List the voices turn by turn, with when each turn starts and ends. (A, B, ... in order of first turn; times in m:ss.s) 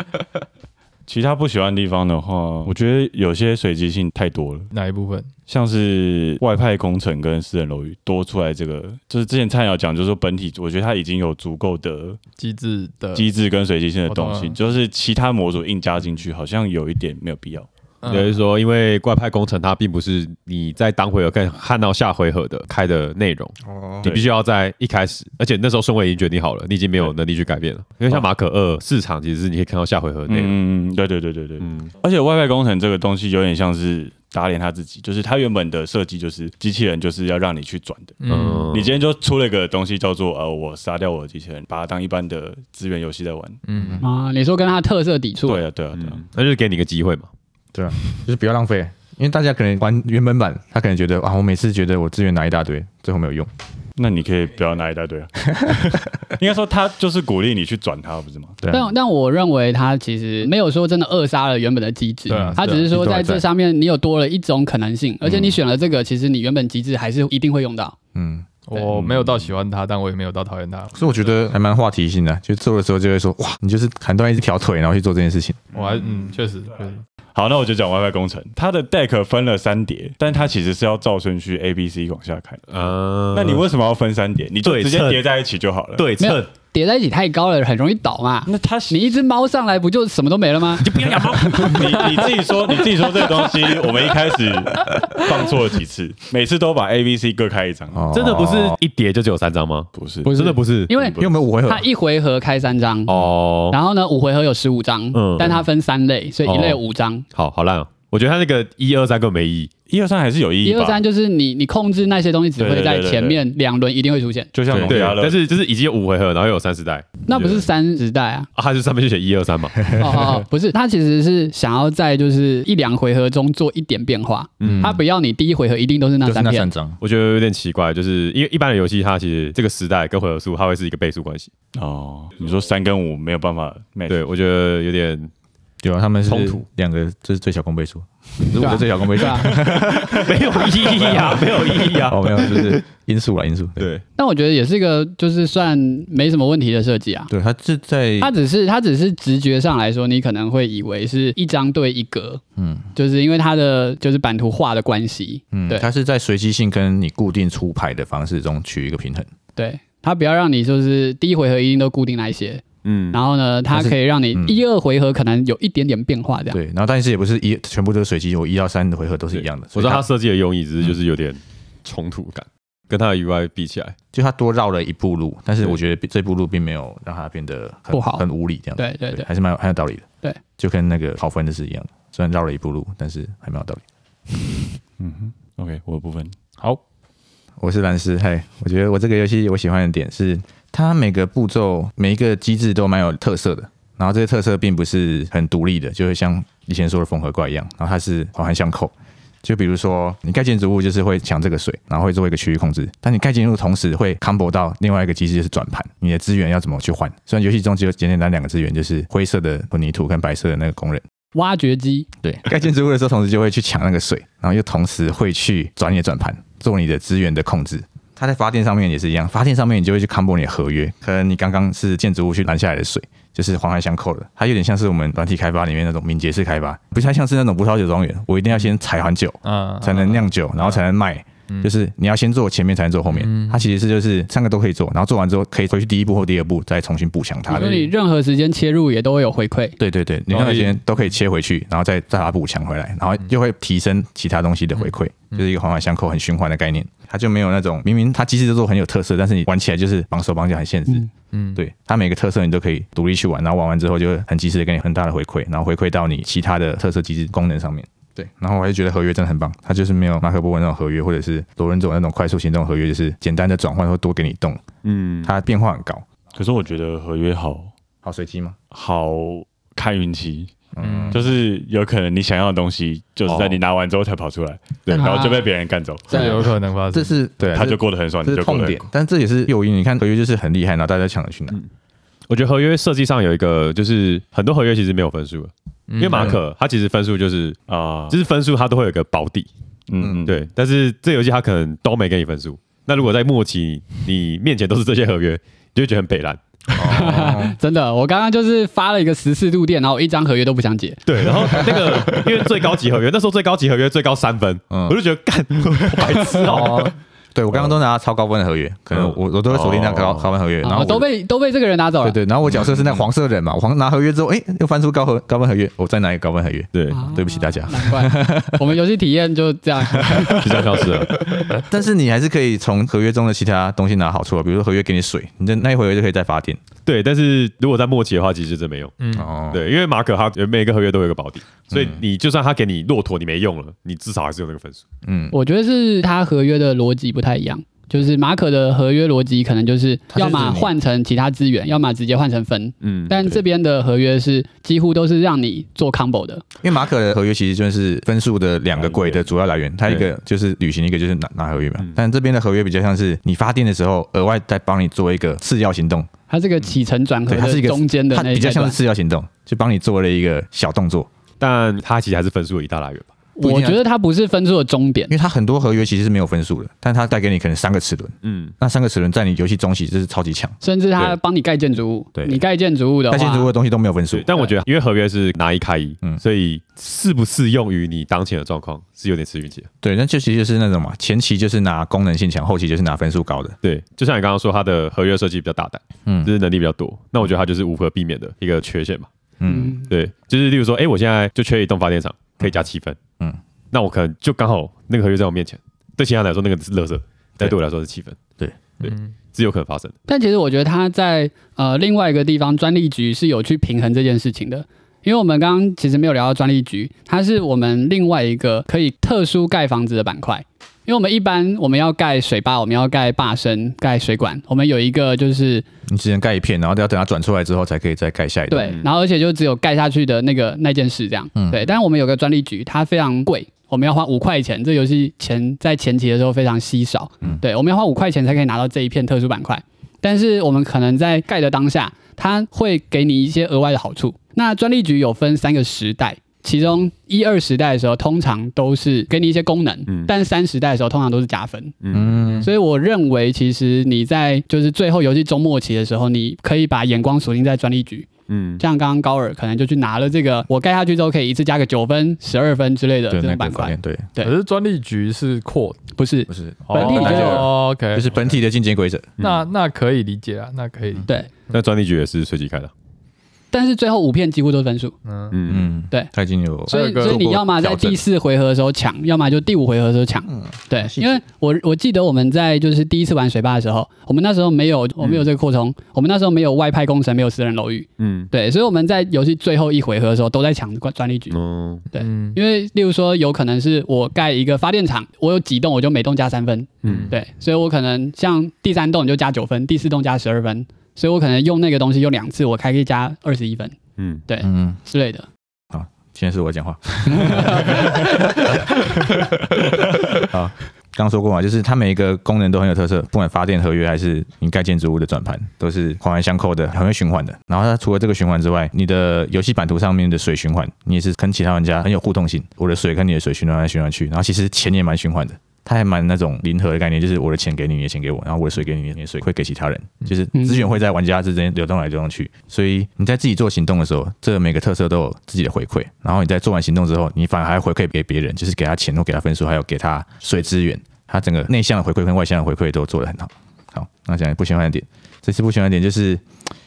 0:01.1-0:04.7 A
0:04.7-0:05.3 B
0:05.5-0:12.2 A
0:12.4-0:13.3 B
0:13.2-0:17.7 A
0:14.1-0:14.6 B
0:18.0-0:18.3 B
0:18.1-0:30.5 C
0:23.6-0:24.1 D
0:30.3-0:43.6 A
0:31.6-0:31.9 C
0:38.2-0:38.7 B
0:38.3-0:38.9 C
0:43.7-0:44.0 B
0:43.8-0:44.0 D
0:44.0-0:45.6 E
0:45.4-0:46.2 A
0:45.9-0:47.3 C
0:47.7-0:53.5 D
0:54.0-0:58.6 A
0:58.6-0:58.9 D
0:58.7-1:08.0 E
1:02.3-1:03.4 D
1:02.3-1:02.6 B
1:05.2-1:05.6 D
1:08.2-1:08.5 D
1:08.7-1:10.9 B
1:09.0-1:09.4 A
1:10.9-1:15.6 D
1:15.7-1:17.0 B
1:17.4-1:22.8 A
1:22.7-1:23.6 C
1:23.3-1:26.1 A
1:24.6-1:25.2 C
1:26.0-1:26.5 C
1:26.2-1:32.1 E
1:28.5-1:29.2 A
1:30.8-1:32.0 C
1:31.4-1:38.1 A
1:33.2-1:33.8 E
1:37.9-1:38.8 D
1:38.1-1:40.9 C
1:39.9-1:40.4 A
1:40.3-1:43.1 E
1:40.9-1:41.3 A
1:41.2-1:41.9 D
1:43.1-1:43.8 C
1:43.7-1:47.3 E
1:45.1-1:45.6 C
1:46.5-1:46.8 A
1:47.3-1:49.7 C
1:49.9-1:51.0 A
1:50.6-1:54.5 E
1:52.6-1:53.4 A
1:54.5-1:55.4 A
1:54.7-1:55.1 D
1:54.9-1:57.7 C
1:57.3-1:58.5 E
1:58.6-1:59.8 C
1:59.8-2:00.3 D
2:00.0-2:06.7 E
2:04.6-2:05.0 C
2:04.6-2:05.0 D
2:06.2-2:07.0 D
2:07.0-2:11.5 C
2:11.8-2:14.2 A
2:14.1-2:15.3 C
2:15.8-2:20.4 D
2:16.2-2:16.6 C
2:18.6-2:19.6 E
2:20.1-2:22.8 C
2:20.9-2:21.5 D
2:22.0-2:23.9 D
2:23.8-2:24.0 C
2:24.2-2:27.3 E
2:27.3-2:28.3 D
2:28.2-2:32.4 E
2:32.6-2:32.9 D
2:33.0-2:35.9 E
2:35.5-2:39.3 D
2:39.6-2:46.6 E
2:42.8-2:43.2 C
2:43.7-2:44.6 D
2:46.5-2:50.1 D
2:49.3-2:54.0 C
2:54.1-3:03.8 D
2:57.9-2:58.2 E
2:58.8-2:59.2 E
3:05.0-3:06.4 A
3:07.6-3:31.0 D
3:31.3-3:32.1 E
3:32.2-3:57.8 D
3:49.4-3:50.8 B
3:53.1-3:53.6 B
3:57.5-3:59.8 E
3:57.6-3:57.8 B
3:59.8-4:24.6 D
4:00.3-4:00.8 B
4:11.3-4:11.6 B
4:24.8-4:25.3 C
4:25.2-4:26.0 D
4:26.3-4:27.7 A
4:28.0-4:28.6 D
4:28.7-4:30.5 A
4:30.8-4:31.2 D
4:30.8-4:31.2 B
4:31.1-4:36.4 A
4:33.3-4:33.6 C
4:34.9-4:35.2 C
4:34.9-4:35.3 D
4:36.1-4:37.1 B
4:36.1-4:36.4 D
4:36.9-4:41.6 D
4:37.5-4:38.8 A
4:42.3-4:47.6 C
4:45.9-4:46.4 B
4:47.7-4:48.2 A
4:48.1-4:49.5 C
4:49.9-4:50.4 A
4:50.0-4:50.3 D
4:50.3-4:56.4 C
4:56.8-4:57.6 D
4:56.8-5:01.7 E
5:01.1-5:06.9 C
5:04.7-5:05.0 D
5:06.5-5:06.8 D
5:06.5-5:06.9 B
5:07.3-5:11.1 D
5:08.9-5:10.3 C
5:10.6-5:12.2 E
5:12.0-5:18.8 D
5:16.7-5:17.1 C
5:16.9-5:20.7 E
5:20.1-5:20.4 D
5:20.4-5:21.2 C
5:21.2-5:26.6 D
5:26.9-5:28.9 C
5:29.0-5:29.3 B
5:29.1-5:29.6 D
5:29.5-5:34.8 C
5:31.7-5:32.0 D
5:35.0-5:35.4 D
5:35.3-5:46.4 E
5:40.1-5:40.7 D
5:42.8-5:43.4 C
5:46.6-5:56.1 D
5:48.8-5:49.2 C
5:56.3-5:58.8 E
5:57.3-6:01.1 D
6:01.4-6:03.1 C
6:03.4-6:05.1 E
6:03.4-6:03.8 D
6:05.1-6:10.6 D
6:08.2-6:08.5 C
6:10.6-6:13.5 E
6:12.2-6:12.4 D
6:13.1-6:14.3 D
6:14.1-6:19.7 C
6:19.8-6:23.6 D
6:23.6-6:29.1 C
6:26.1-6:26.3 D
6:29.4-6:29.8 D
6:29.5-6:29.9 E
6:29.9-6:33.0 C
6:33.7-6:38.2 C
6:38.8-6:40.0 C
6:38.8-6:39.1 B
6:40.1-6:55.7 E
6:55.9-6:58.8 D
6:58.5-7:21.8 E
7:01.4-7:01.7 D
7:21.8-7:22.4 C
7:21.9-7:22.5 D
7:22.4-7:28.1 E
7:28.3-7:28.6 C
7:28.6-7:34.4 E
7:33.1-7:34.1 D
7:34.2-7:35.8 B
7:36.0-7:37.5 E
7:36.3-7:39.2 D
7:36.7-7:38.2 B
7:39.2-7:39.4 C
7:39.2-7:41.1 B
7:41.5-7:42.7 C
7:43.5-7:45.0 E
7:45.0-7:45.4 B
7:45.3-7:45.7 C
7:45.5-7:48.0 D
7:46.7-7:47.2 B
7:46.7-8:01.4 E
7:50.3-7:51.2 D
7:58.0-7:58.3 C
8:01.3-8:01.8 C
8:01.9-8:13.8 E
8:02.0-8:02.4 B
8:06.8-8:07.1 C
8:14.0-8:14.2 C
8:14.3-8:15.3 E
8:14.4-8:14.8 D
8:15.7-8:56.2 D
8:17.1-8:18.6 E
8:40.4-8:40.6 E